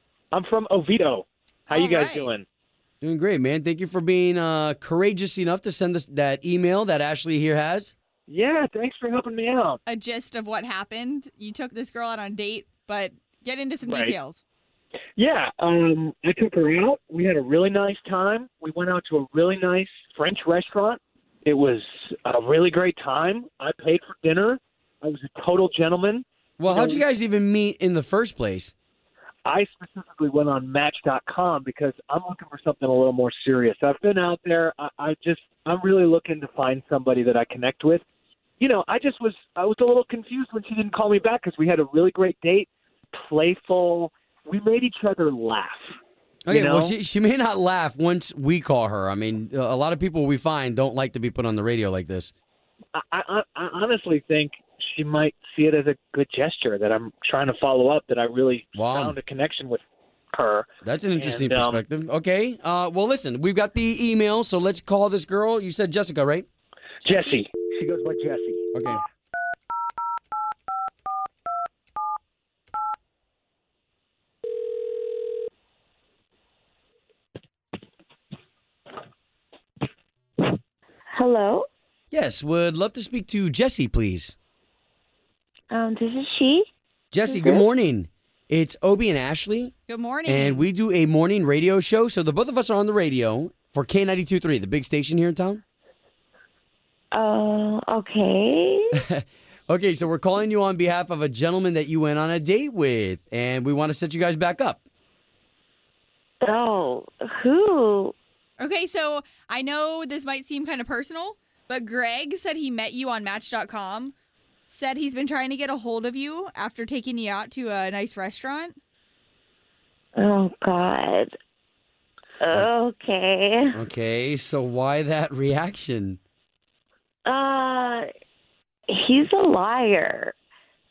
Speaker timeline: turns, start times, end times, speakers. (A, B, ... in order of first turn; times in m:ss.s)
0:00.3-0:02.4 A
0:01.7-0:02.3 B
0:03.0-0:07.9 C
0:08.3-0:09.8 A
0:09.9-0:14.4 B
0:13.8-0:14.2 A
0:15.2-0:27.0 A
0:26.6-0:28.7 C
0:29.4-0:38.0 A
0:38.6-0:45.9 A
0:46.5-0:52.3 C
0:46.5-0:46.9 A
0:53.0-0:59.8 A
0:58.8-0:59.2 C
1:00.3-1:01.8 A
1:00.8-1:06.5 C
1:07.0-1:07.5 B
1:07.0-1:08.7 A
1:08.7-1:09.0 C
1:21.1-1:21.7 D
1:22.1-1:24.4 C
1:25.7-1:26.7 D
1:27.1-1:29.7 C
1:27.2-1:27.6 D
1:29.9-1:30.6 B
1:30.2-1:35.6 C
1:37.1-1:39.0 D
1:39.0-1:44.8 C
1:46.4-1:48.1 D
1:48.6-1:54.1 B
1:54.7-1:58.8 B
2:00.2-2:01.3 D
2:02.4-2:03.8 D
2:03.7-2:06.2 C
2:07.3-2:08.1 D
2:08.9-2:10.4 D